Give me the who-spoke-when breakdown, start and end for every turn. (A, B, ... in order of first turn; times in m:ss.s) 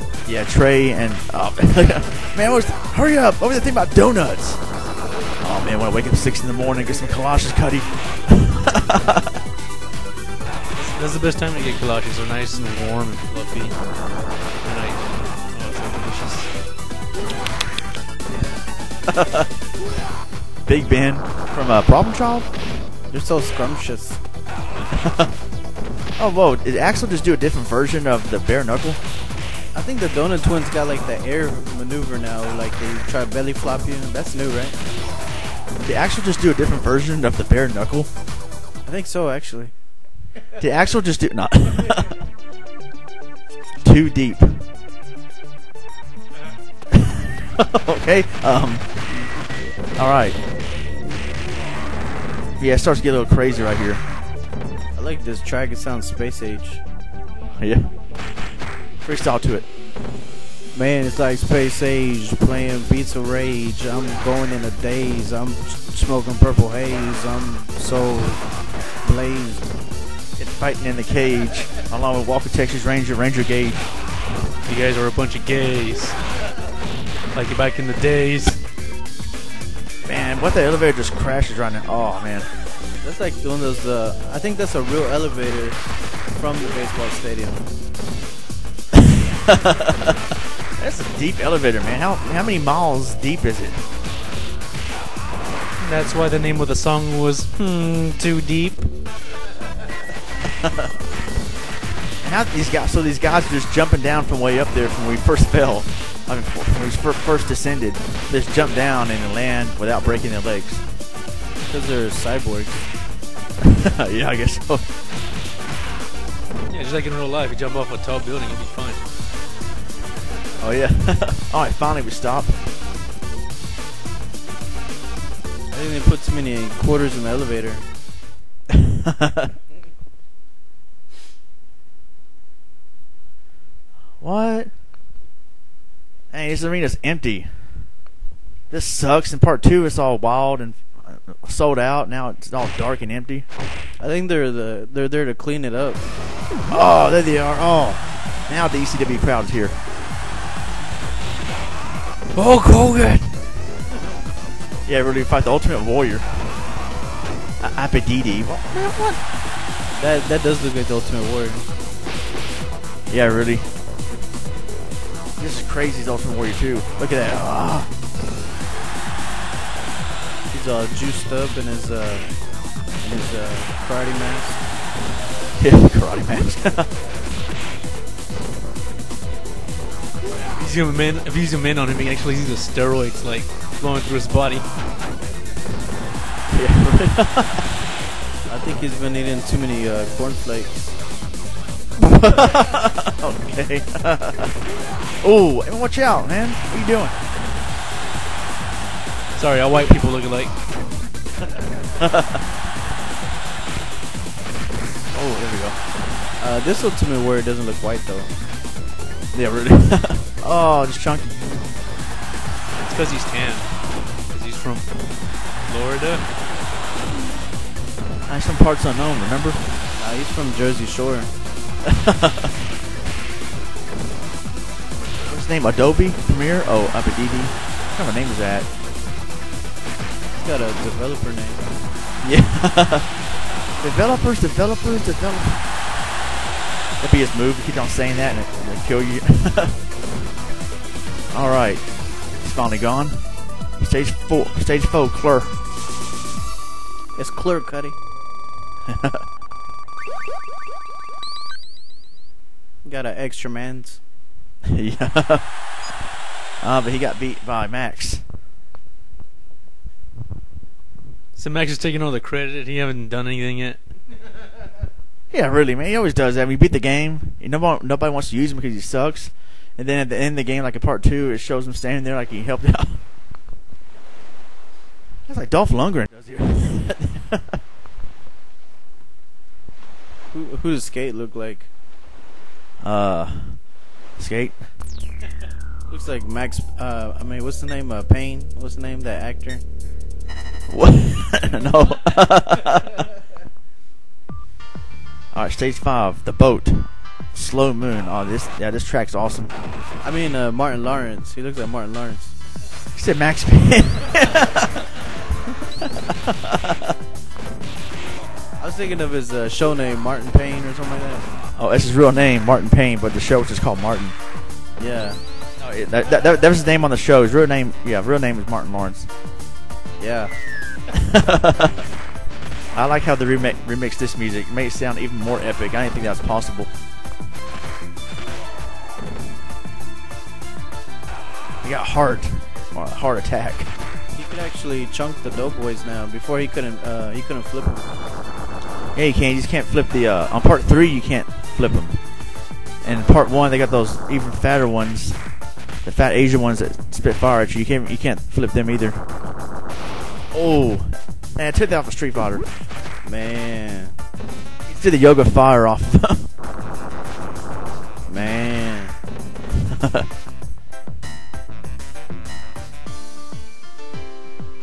0:00.2-0:04.6 A
0:05.4-0:09.3 A
0:10.8-0:13.8 B
0:14.6-0:16.5 B
0:19.1-0:19.5 A
0:20.6-0:22.5 A
0:23.1-0:24.2 C
0:24.9-0:25.3 A
0:26.2-0:29.0 A
0:29.7-0:34.8 C
0:35.8-0:38.1 A
0:38.8-0:39.7 C
0:40.6-0:42.1 A
0:43.8-0:44.6 A
0:46.9-0:48.9 A
0:50.0-0:50.4 A
0:52.6-0:54.0 A
0:55.0-0:56.8 C
0:57.6-0:57.9 A
0:59.0-0:59.7 A
1:00.7-1:08.4 C
1:09.0-1:09.7 C
1:10.4-1:13.8 A
1:14.6-1:16.2 B
1:17.3-1:18.6 B
1:20.0-1:22.5 A
1:23.0-1:25.8 C
1:26.3-1:27.6 C
1:29.0-1:33.8 A
1:35.8-1:38.9 B
1:40.5-1:40.9 A
1:42.2-1:50.8 A
1:51.7-1:52.8 C
1:53.6-1:54.9 A
1:56.7-1:59.0 B
2:00.6-2:02.6 A
2:05.7-2:07.8 C
2:08.7-2:09.5 A
2:14.2-2:14.7 A
2:16.3-2:17.9 A
2:18.7-2:23.4 A
2:24.0-2:26.0 C
2:26.7-2:29.8 A
2:32.4-2:33.3 C
2:34.8-2:36.3 A
2:37.6-2:39.2 A
2:39.9-2:41.6 C
2:43.1-2:43.6 A
2:45.4-2:47.9 A
2:50.5-2:52.3 C
2:53.0-2:54.6 C
2:55.6-2:56.9 A
3:00.5-3:04.7 B
3:06.5-3:07.7 A
3:08.5-3:10.9 C
3:12.0-3:14.6 A
3:15.2-3:17.2 A
3:19.4-3:20.5 B
3:22.0-3:22.4 A
3:25.1-3:25.8 A
3:26.4-3:28.3 C
3:29.3-3:31.5 A
3:32.8-3:33.7 B
3:34.3-3:34.9 B
3:35.6-3:36.3 B
3:38.3-3:39.6 A
3:40.0-3:41.3 C
3:41.8-3:42.5 A
3:45.2-3:48.7 A
3:50.3-3:51.6 C
3:52.2-3:53.2 A
3:53.8-3:55.6 A
3:57.0-3:59.8 A
4:01.3-4:05.6 A
4:07.2-4:08.0 C
4:08.8-4:09.2 A
4:12.8-4:14.0 C
4:14.6-4:15.5 A
4:16.6-4:18.2 A
4:21.4-4:23.8 B
4:25.3-4:33.0 A
4:35.3-4:37.6 A
4:40.3-4:41.7 C
4:42.8-4:43.6 A
4:44.2-4:44.6 A
4:45.9-4:49.6 C
4:50.7-4:53.0 A
4:55.3-4:59.5 A
5:00.0-5:02.3 C
5:02.9-5:04.9 A
5:05.8-5:07.0 A
5:08.6-5:11.3 C
5:11.6-5:14.2 A
5:14.8-5:15.2 C
5:15.6-5:19.1 A
5:20.0-5:20.3 C
5:20.9-5:21.8 A
5:22.7-5:26.7 A
5:31.6-5:33.7 A
5:34.1-5:37.9 C
5:38.9-5:42.0 A
5:42.8-5:45.2 A
5:45.8-5:49.0 A
5:50.3-5:52.4 A
5:53.0-5:53.9 C
5:54.6-5:56.3 A
5:58.1-5:58.9 C
5:59.5-6:00.1 A